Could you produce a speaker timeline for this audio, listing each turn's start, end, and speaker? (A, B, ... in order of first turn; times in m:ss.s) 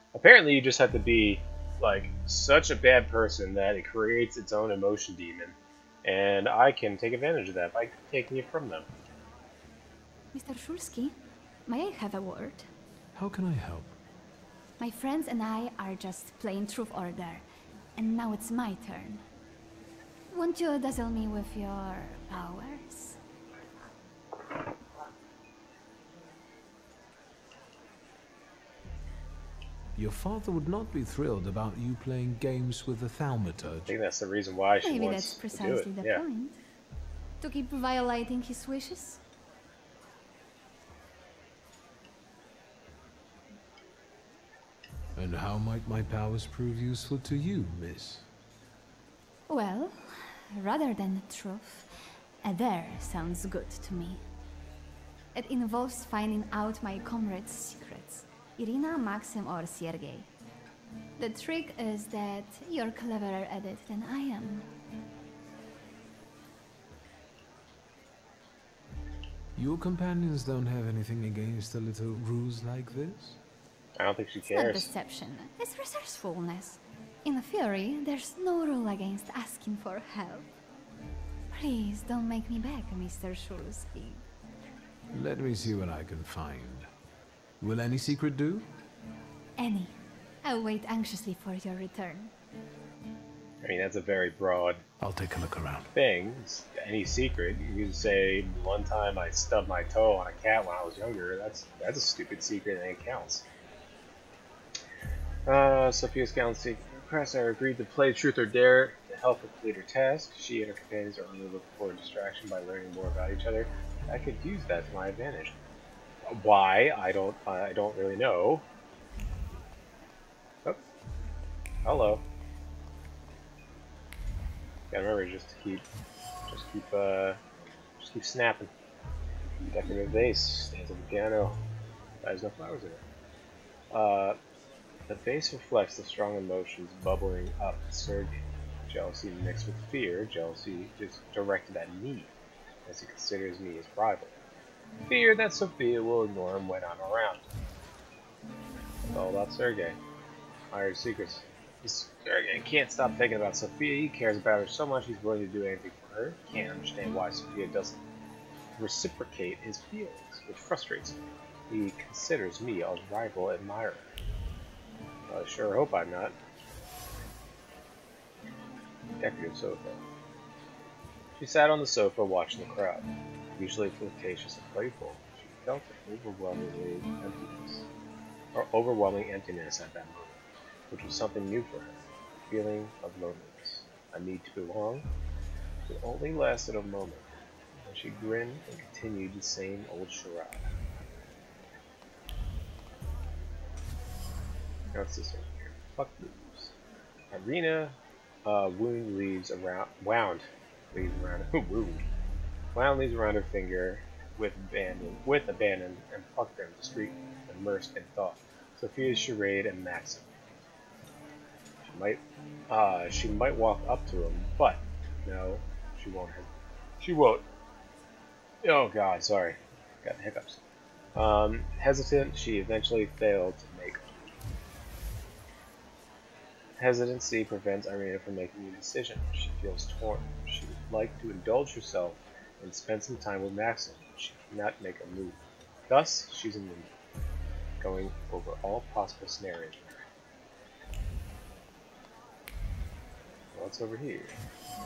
0:00.1-0:08.9 A
0:10.3-0:11.2 B
0:11.7-0:12.7 B
0:13.2-0:14.0 C
0:14.8-0:17.4 B
0:18.0-0:19.2 B
0:20.3-0:23.2 B
0:30.0-0:34.0 C
0:33.9-0:36.2 A
0:34.8-0:36.6 B
0:37.4-0:39.2 B
0:45.2-0:48.3 C
0:49.5-0:51.9 B
0:52.4-0:54.2 B
0:55.3-1:00.3 B
1:01.2-1:04.7 B
1:09.6-1:13.4 C
1:14.0-1:14.9 A
1:14.4-1:20.5 B
1:21.5-1:24.2 B
1:25.1-1:26.9 C
1:27.6-1:28.7 C
1:29.6-1:32.3 B
1:33.6-1:34.8 A
1:35.0-1:35.9 C
1:36.0-1:43.4 A
1:45.5-1:55.6 A
1:56.2-1:58.6 A
2:01.8-2:02.2 A
2:04.9-2:05.9 A
2:06.5-2:07.4 A
2:08.0-2:08.7 A
2:09.7-2:11.6 A
2:12.2-2:13.0 A
2:13.9-2:14.4 A
2:15.1-2:22.3 A
2:22.8-2:24.4 A
2:25.1-2:27.5 A
2:29.0-2:30.0 A
2:30.7-2:38.0 A
2:38.8-2:44.1 A
2:45.3-2:46.4 A
2:49.2-2:50.0 A
2:51.4-2:57.9 A
2:58.5-3:00.4 A
3:00.9-3:02.0 A
3:02.5-3:05.1 A
3:05.9-3:10.7 A
3:14.9-3:16.7 A
3:17.3-3:22.1 A
3:22.7-3:30.4 A
3:31.8-3:37.5 A
3:38.6-3:40.6 A
3:41.2-3:44.2 A
3:46.8-3:56.9 A
3:57.8-4:00.0 A
4:03.5-4:04.4 A